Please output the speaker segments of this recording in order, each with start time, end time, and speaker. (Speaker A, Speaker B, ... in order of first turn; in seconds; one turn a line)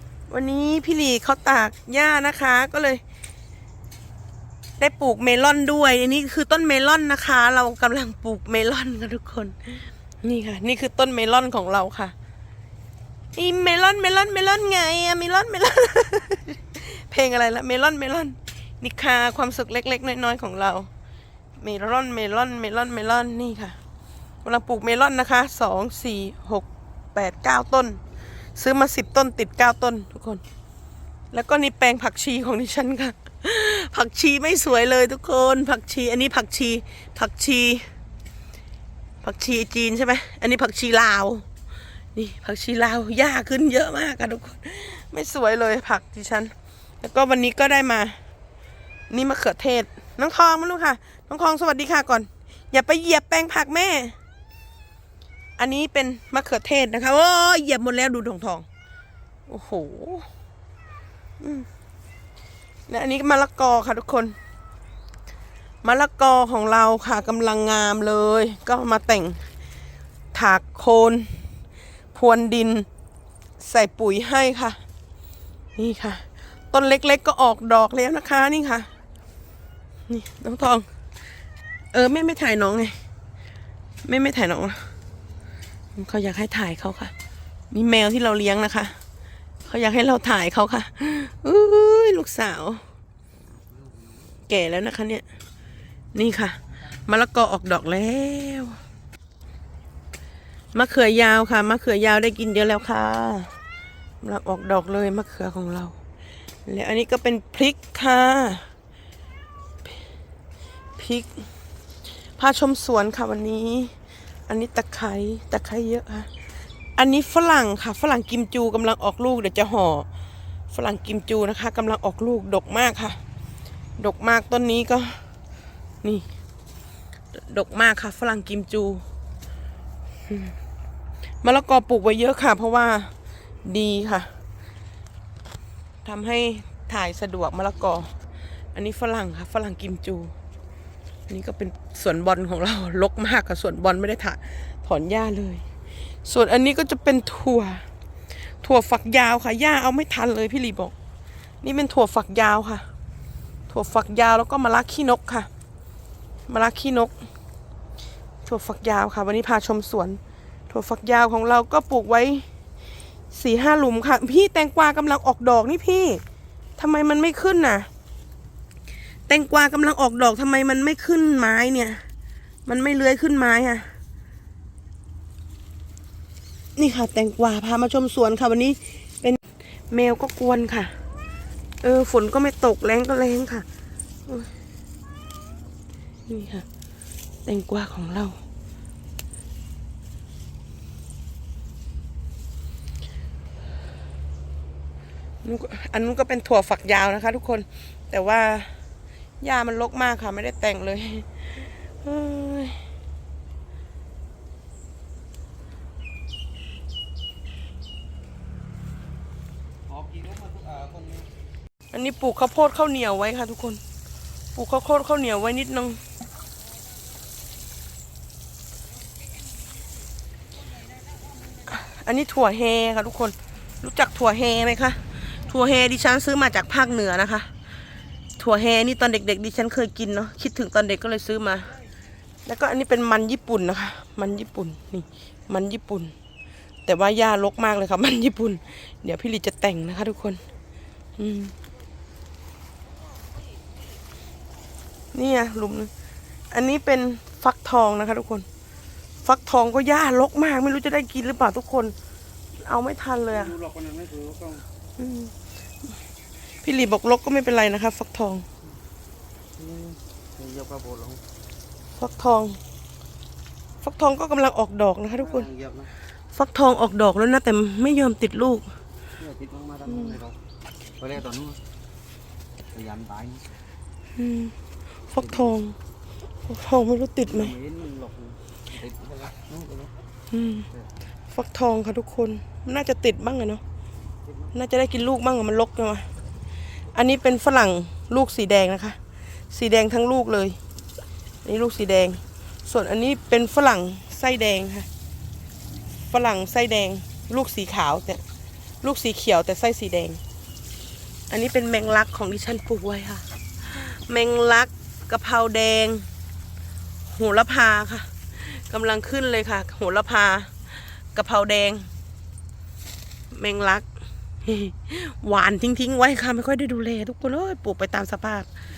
Speaker A: 0.3-3.0
Speaker A: 4.8-12.1
Speaker A: 13.3-20.9
Speaker A: 21.6-23.8
Speaker A: 24.4-28.0
Speaker A: 28.6-30.4
Speaker A: 31.3-37.8
Speaker A: 39.2-41.5
Speaker A: 42.1-48.2
Speaker A: 49.1-54.1
Speaker A: 55.6-58.6
Speaker A: 59.5-60.3
Speaker A: 61.4-61.7
Speaker A: 62.9-64.3
Speaker A: 65.8-69.4
Speaker A: 70.3-71.4
Speaker A: 72.1-72.9
Speaker A: 73.6-74.8
Speaker A: 75.8-78.9
Speaker A: 80.1-80.8
Speaker A: 81.9-83.0
Speaker A: 84.0-84.9
Speaker A: 86.0-87.1
Speaker A: 87.7-89.0
Speaker A: 89.6-92.8
Speaker B: 93.5-94.1
Speaker A: 94.5-95.2
Speaker A: 96.1-98.8
Speaker A: 100.7-103.5
Speaker A: 104.2-105.9
Speaker A: 106.7-108.7
Speaker A: 111.0-111.5
Speaker A: 112.4-113.9
Speaker A: 114.5-116.3
Speaker A: 117.0-120.1
Speaker A: 120.7-123.2
Speaker A: 124.0-125.2
Speaker A: 127.3-129.0
Speaker A: 130.3-130.5
Speaker A: 131.4-133.1
Speaker A: 133.6-134.3
Speaker A: 136.0-138.1
Speaker A: 138.7-140.3
Speaker A: 141.3-145.6
Speaker A: 146.2-147.8
Speaker A: 148.6-150.9
Speaker A: 151.6-152.8
Speaker A: 153.7-155.5
Speaker A: 156.5-157.1
Speaker A: 158.4-160.2
Speaker A: 160.7-162.4
Speaker A: 163.3-166.2
Speaker A: 166.8-167.9
Speaker A: 169.3-172.0
Speaker A: 172.7-173.9
Speaker A: 176.8-180.9
Speaker A: 181.8-183.7
Speaker A: 186.3-186.7
Speaker A: 187.4-188.4
Speaker A: 195.4-198.7
Speaker A: 199.4-201.3
Speaker A: 202.0-202.8
Speaker B: 209.9-211.3
Speaker A: 211.9-213.8
Speaker A: 214.5-216.0
Speaker A: 221.7-227.5
Speaker A: 228.4-231.7
Speaker A: 232.4-236.1
Speaker A: 236.8-240.4
Speaker A: 241.2-241.5
Speaker A: 245.1-245.9
Speaker A: 246.5-248.4
Speaker A: 249.2-251.9
Speaker A: 252.6-253.5
Speaker B: 253.3-254.6
Speaker A: 255.0-255.3
Speaker A: 256.6-258.4
Speaker B: 259.6-261.2
Speaker A: 261.9-262.6
Speaker A: 263.8-265.5
Speaker B: 265.2-265.9
Speaker A: 266.3-268.6
Speaker B: 269.2-270.4
Speaker A: 269.9-270.2
Speaker B: 271.0-271.6
Speaker B: 272.7-273.4
Speaker A: 274.1-274.5
Speaker A: 275.1-275.7
Speaker B: 275.2-275.5
Speaker A: 276.5-277.5
Speaker B: 277.2-279.9
Speaker A: 280.3-280.7
Speaker A: 281.3-283.6
Speaker A: 284.5-286.1
Speaker A: 286.9-289.0
Speaker A: 289.5-290.6
Speaker A: 291.4-294.9
Speaker A: 296.1-298.2
Speaker A: 298.8-300.2
Speaker A: 301.3-306.1
Speaker A: 307.1-310.5
Speaker A: 311.1-311.9
Speaker A: 313.3-313.9
Speaker A: 314.4-318.5